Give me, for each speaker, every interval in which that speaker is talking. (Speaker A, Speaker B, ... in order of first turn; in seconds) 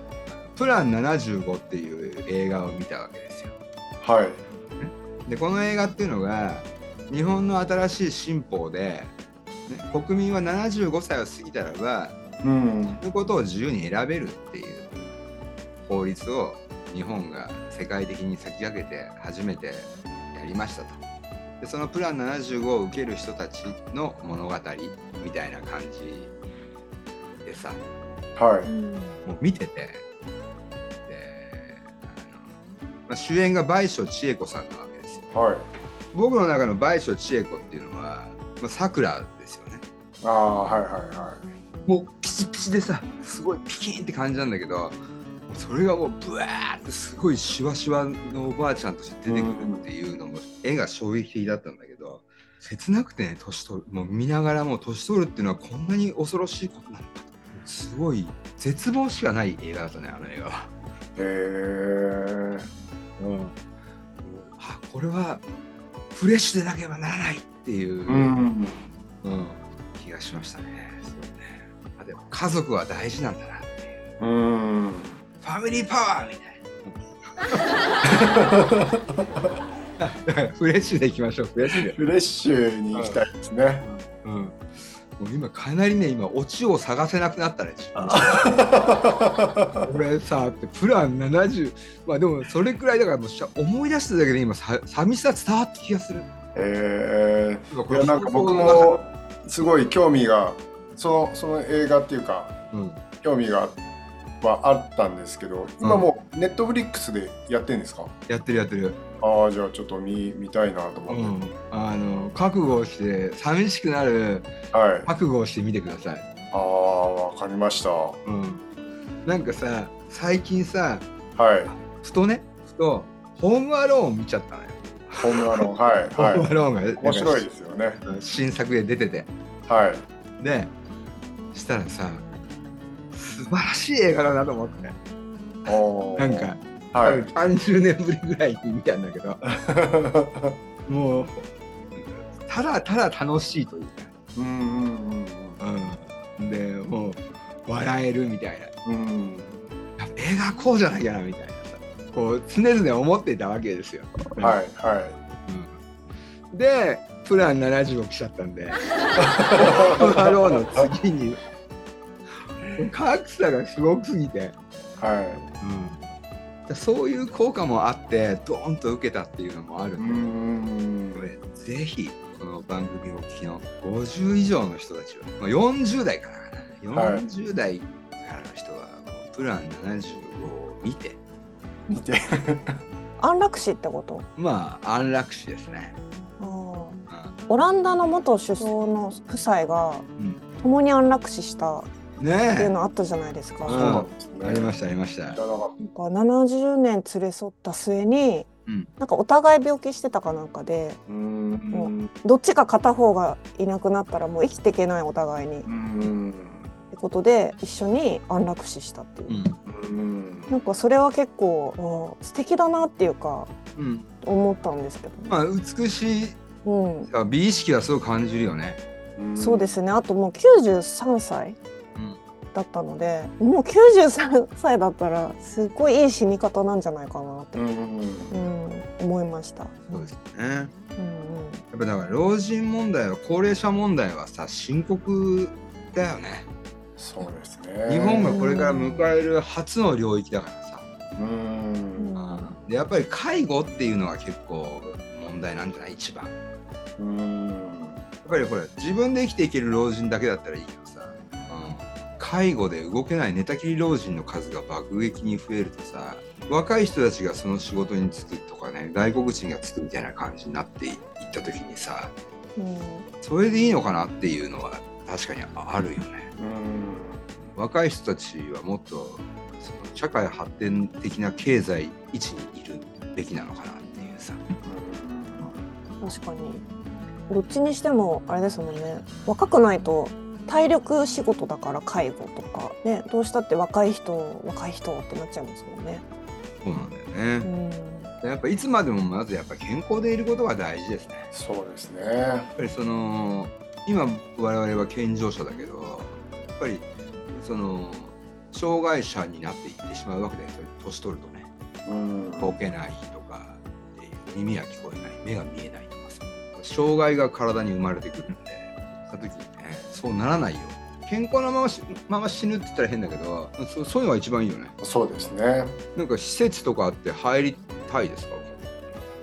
Speaker A: 0.5-3.5, 4.8-9.1, 9.7-12.2, 13.0-15.1, 15.8-21.0, 21.6-26.3, 27.4-27.8, 29.2-30.0, 31.1-32.5, 33.1-35.2, 36.1-39.8, 41.9-45.0, 45.5-60.7, 63.2-63.5, 64.2-65.4, 66.1-68.3, 69.2-74.0, 75.4-77.9, 80.0-82.0, 82.9-83.2, 83.8-88.6, 89.8-96.3, 97.7-99.0, 102.7-103.0, 105.8-106.1, 108.3-109.0, 111.1-114.5, 115.0-116.2, 118.2-118.6, 119.2-121.1, 121.7-127.5, 128.1-129.3, 130.4-130.7, 131.5-132.2, 133.1-135.0, 135.7-139.4, 140.8-144.1, 145.6-148.7, 150.0-154.6, 155.5-155.7, 156.5-158.8, 159.5-161.4, 162.7-164.5, 165.6-166.0, 166.7-170.2, 171.1-181.2, 184.4-185.9, 187.1-187.3, 192.2-192.7, 193.7-195.4, 209.3-209.6, 213.8-214.1, 215.3-216.4, 217.1-218.8, 229.9-230.7, 231.7-236.5, 237.9-240.9, 242.2-246.3, 248.2-262.1, 263.2-266.3, 267.5-274.4, 286.6-287.5, 288.2-291.3, 292.6-301.5, 302.4-314.7, 315.9-318.6
Speaker B: 4.0-4.4, 12.4-13.0, 28.4-28.7, 35.3-35.7, 40.2-41.4, 49.3-49.8, 61.2-62.7, 68.1-68.8, 74.2-75.2, 78.0-79.5, 81.9-83.8, 88.0-89.9, 96.5-102.5, 103.2-103.8, 104.4-108.1, 109.2-111.3, 114.7-115.1, 116.5-118.2, 121.3-121.7, 125.2-128.0, 129.7-130.0, 135.7-137.3, 139.4-140.6, 144.3-145.6, 148.8-149.6, 154.4-155.2, 159.2-160.9, 165.0-165.4, 170.0-171.3, 176.9-177.2, 181.9-182.8, 193.6-194.7, 195.3-195.7, 201.1-202.1, 205.7-206.7, 209.7-210.5, 219.2-219.8, 227.5-228.4, 237.0-238.4, 241.2-242.1, 247.0-248.1, 266.4-267.2, 274.6-275.5, 291.3-292.5, 301.9-302.5, 314.8-315.8
Speaker C: 28.6-29.2, 183.2-184.2, 186.4-190.1, 190.6-191.9, 192.5-193.9, 195.8-198.5, 199.0-201.0, 201.7-205.7, 206.9-209.4, 210.5-213.5, 214.2-215.3, 216.6-217.1, 219.3-221.6, 222.5-227.6, 228.3-230.1, 230.9-231.6, 238.3-239.1, 241.9-242.5, 262.6-263.1, 276.0-276.6, 277.3-286.0, 287.4-288.1